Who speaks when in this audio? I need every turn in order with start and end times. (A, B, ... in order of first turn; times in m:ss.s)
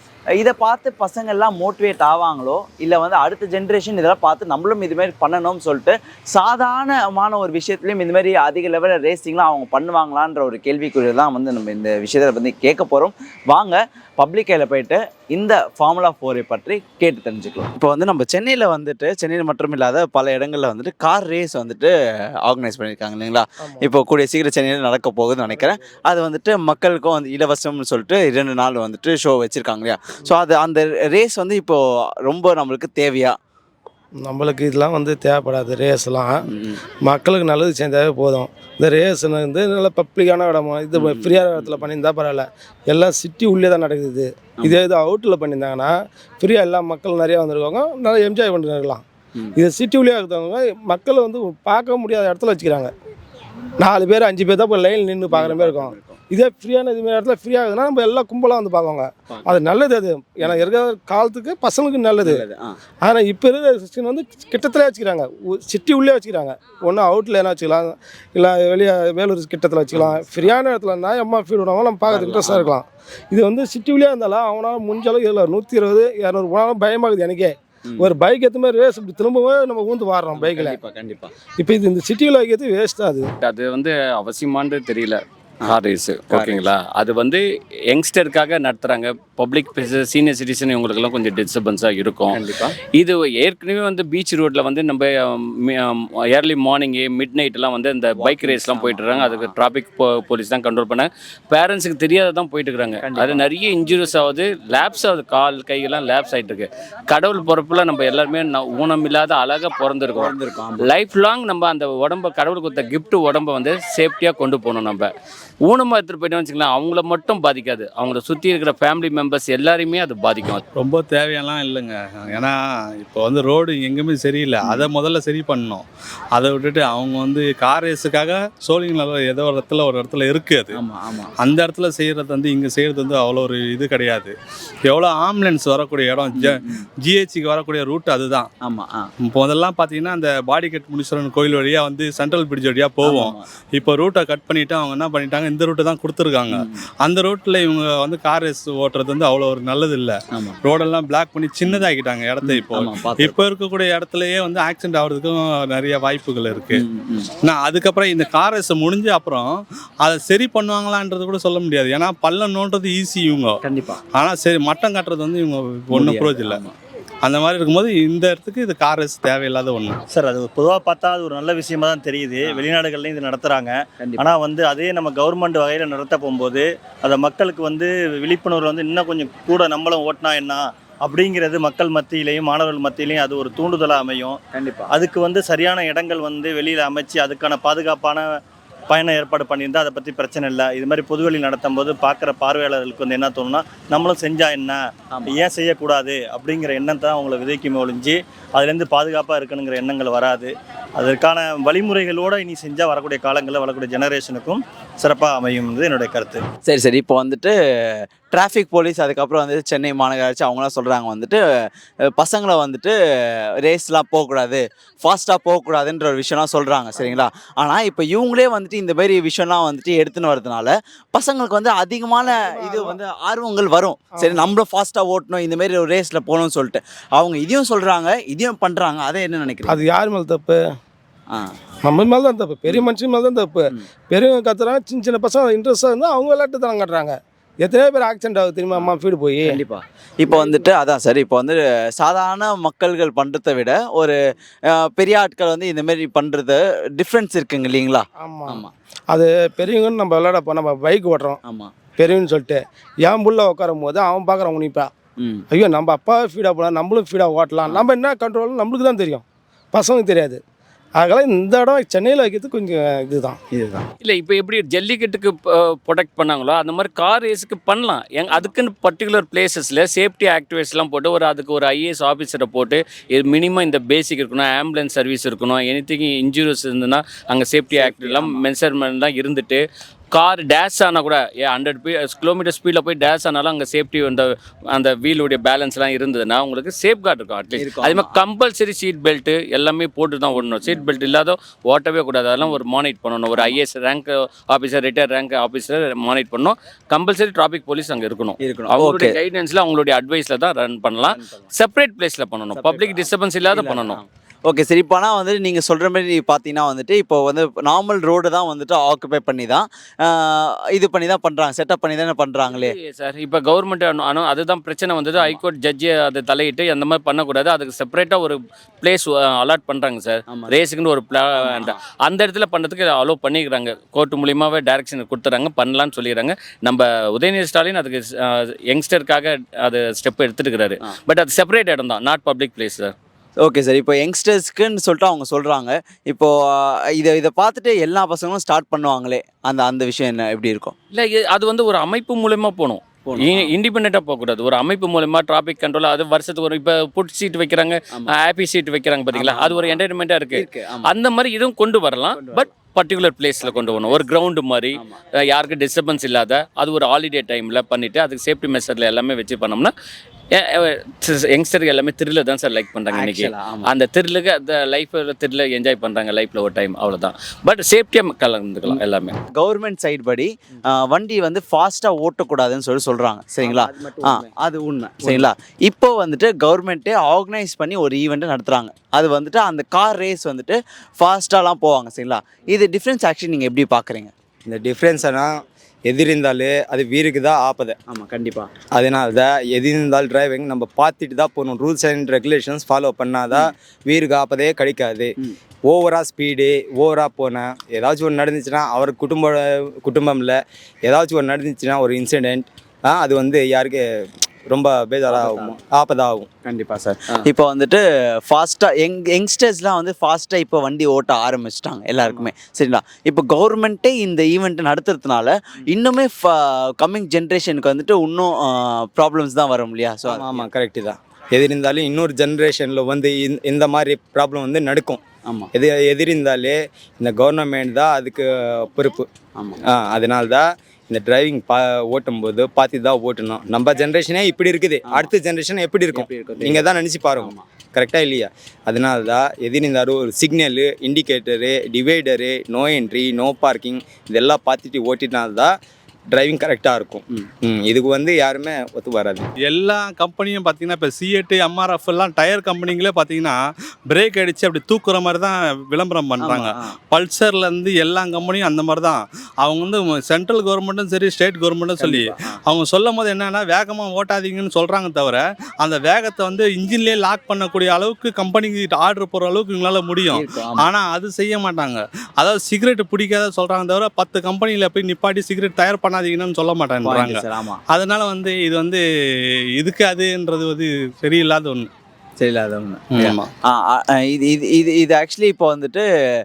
0:00.4-0:21.9 A
0:22.4-0:33.3 A
0:23.6-0:23.9 B
0:25.4-0:26.0 B
0:34.2-0:36.3 B
0:36.5-0:36.8 A
0:37.0-0:49.0 B
0:40.9-0:41.9 A
0:49.6-0:52.9 B
0:53.8-1:02.4 B
0:55.3-0:56.2 A
0:59.3-0:59.6 A
1:00.4-1:00.7 A
1:02.2-1:02.7 A
1:03.0-1:20.8 B
1:09.9-1:10.6 A
1:12.1-1:12.7 A
1:17.9-1:18.1 A
1:20.3-1:21.3 A
1:21.6-1:23.3 B
1:23.4-1:32.4 C
1:26.3-1:26.6 A
1:32.3-1:32.8 A
1:33.0-1:55.1 C
1:38.1-1:39.6 A
1:43.0-1:43.5 A
1:50.1-1:50.9 A
1:55.6-2:00.6 C
2:00.7-2:10.7 D
2:04.6-2:04.9 A
2:10.7-2:11.3 A
2:11.4-2:14.3 D
2:14.9-2:18.5 D
2:16.3-2:16.8 A
2:18.6-2:19.0 A
2:19.2-2:36.8 D
2:23.0-2:23.4 A
2:26.5-2:26.8 A
2:32.4-2:33.4 A
2:36.7-2:37.3 A
2:37.4-2:43.6 D
2:43.6-2:44.0 A
2:44.1-2:46.6 D
2:45.9-2:46.7 A
2:47.2-2:50.0 D
2:50.1-3:04.4 E
2:54.0-2:54.3 A
3:04.5-3:04.9 A
3:04.9-3:08.2 E
3:08.9-3:14.8 E
3:15.1-3:15.4 A
3:15.3-3:26.4 E
3:26.6-3:31.4 A
3:32.1-3:32.9 A
3:33.6-3:49.8 A
3:37.0-3:37.2 B
3:42.2-3:43.0 B
3:44.2-3:44.5 B
3:49.6-3:50.6 B
3:51.8-3:59.6 B
3:59.4-4:04.2 A
4:00.3-4:00.6 B
4:04.7-4:08.7 A
4:08.2-4:11.4 B
4:11.4-4:11.7 A
4:12.0-4:14.9 B
4:15.2-4:15.4 A
4:15.5-4:20.4 B
4:21.0-4:23.4 B
4:23.5-4:23.9 A
4:24.0-5:04.0 C
4:37.7-4:38.4 A
4:47.5-4:48.2 A
4:50.4-4:50.8 A
4:53.3-4:53.6 A
4:58.4-4:59.2 A
5:01.0-5:01.4 A
5:02.5-5:12.8 A
5:12.5-5:32.9 C
5:15.1-5:15.4 A
5:20.3-5:20.6 A
5:21.4-5:21.8 A
5:33.4-5:40.7 A
5:40.9-5:59.7 C
5:43.0-5:43.5 A
5:47.9-5:48.1 A
5:49.1-5:50.9 A
5:52.1-5:52.5 A
5:53.4-5:54.0 A
5:54.7-5:55.0 A
6:00.3-6:09.1 C
6:02.9-6:03.7 A
6:08.6-6:24.1 A
6:24.5-6:25.3 F
6:25.9-6:27.8 F
6:27.9-6:28.5 A
6:28.7-6:35.1 F
6:35.7-6:43.8 F
6:44.5-6:46.3 F
6:45.1-6:45.6 A
6:46.4-7:00.5 A
7:00.1-7:05.0 F
7:05.5-7:09.1 F
7:09.4-7:09.6 A
7:09.7-7:25.5 F
7:15.9-7:17.4 A
7:26.1-7:29.2 F
7:29.4-7:33.4 D
7:33.9-7:58.8 D
7:36.2-7:36.7 A
7:41.8-7:42.3 A
7:50.1-7:50.7 A
7:56.8-7:57.6 A
7:59.6-8:01.7 D
8:02.2-8:05.8 A
8:02.9-8:03.3 D